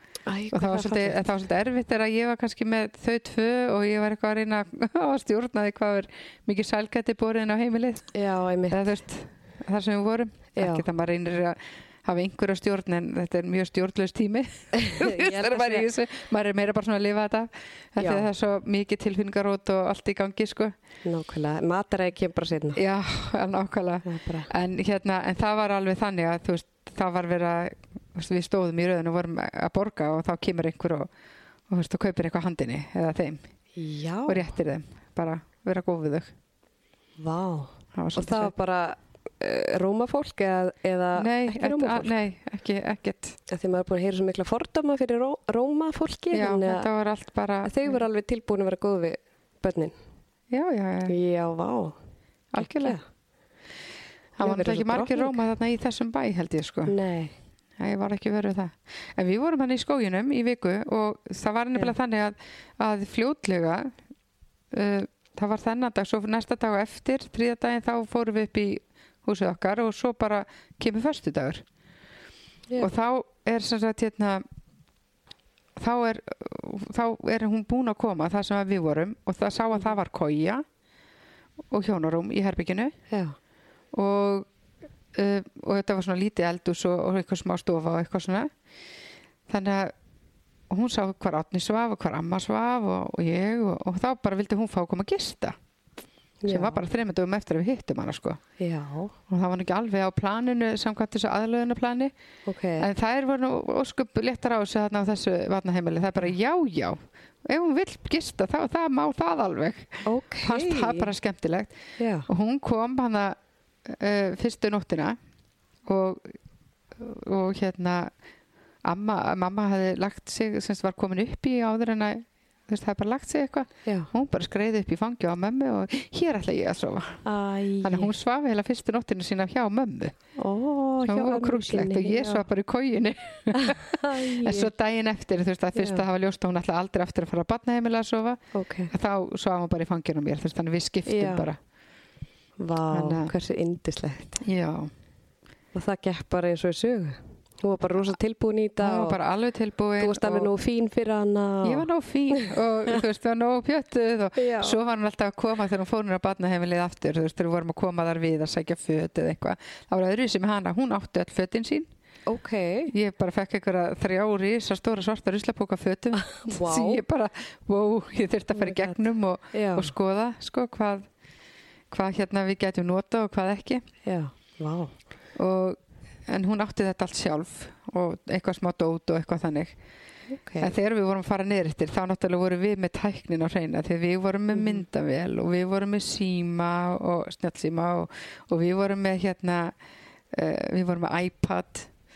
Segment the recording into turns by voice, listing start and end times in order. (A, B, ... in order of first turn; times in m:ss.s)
0:00.3-0:01.3 A
0:00.5-0:08.1 B
0:08.1-0:09.0 A
0:08.7-0:20.8 B
0:10.6-0:10.8 A
0:14.7-0:15.9 A
0:18.0-0:18.3 A
0:21.0-0:22.8 A
0:22.8-0:31.1 B
0:24.0-0:24.5 A
0:31.7-0:33.4 B
0:33.8-0:34.5 A
0:34.3-0:36.3 B
0:37.2-0:42.1 A
0:38.0-0:38.5 B
0:41.2-0:43.4 B
0:43.5-0:46.9 A
0:46.3-0:48.0 B
0:47.6-0:49.9 A
0:50.5-0:51.1 B
0:51.1-0:52.0 A
0:52.5-0:53.0 B
0:52.6-0:53.0 A
0:54.4-0:57.0 B
0:54.4-0:55.4 A
0:56.9-0:57.3 A
0:57.8-1:03.9 B
1:04.7-1:11.6 B
1:12.8-1:14.4 B
1:15.8-1:20.6 B
1:21.7-1:23.0 B
1:23.1-1:23.4 A
1:23.9-1:24.5 B
1:25.1-1:28.5 B
1:29.5-1:29.9 B
1:30.7-1:35.6 B
1:36.4-1:36.8 A
1:36.5-1:38.4 B
1:38.6-1:39.2 A
1:39.3-1:42.1 B
1:42.5-1:42.9 A
1:42.8-1:51.7 B
1:50.1-1:51.1 A
1:52.0-1:52.3 A
1:52.3-1:55.2 B
1:55.9-1:56.4 B
1:57.0-1:58.1 B
1:58.8-2:07.2 B
2:03.8-2:04.1 A
2:07.2-2:08.1 A
2:07.8-2:10.2 B
2:10.4-2:12.4 A
2:11.0-2:21.6 B
2:13.6-2:14.7 A
2:15.8-2:16.0 A
2:18.5-2:18.9 A
2:21.1-2:21.5 A
2:22.6-2:24.4 A
2:22.9-2:23.3 B
2:24.4-2:24.9 B
2:25.7-2:29.2 A
2:28.8-2:30.5 B
2:30.0-2:33.0 A
2:31.6-2:41.9 B
2:34.4-2:34.8 A
2:42.3-2:42.9 A
2:42.9-2:51.1 B
2:46.2-2:47.0 A
2:48.6-2:49.0 A
2:49.5-2:49.9 A
2:51.9-2:53.8 B
2:54.0-2:55.0 A
2:55.4-2:59.8 B
3:00.3-3:00.7 A
3:00.6-3:09.8 B
3:04.5-3:04.8 A
3:10.3-3:11.9 B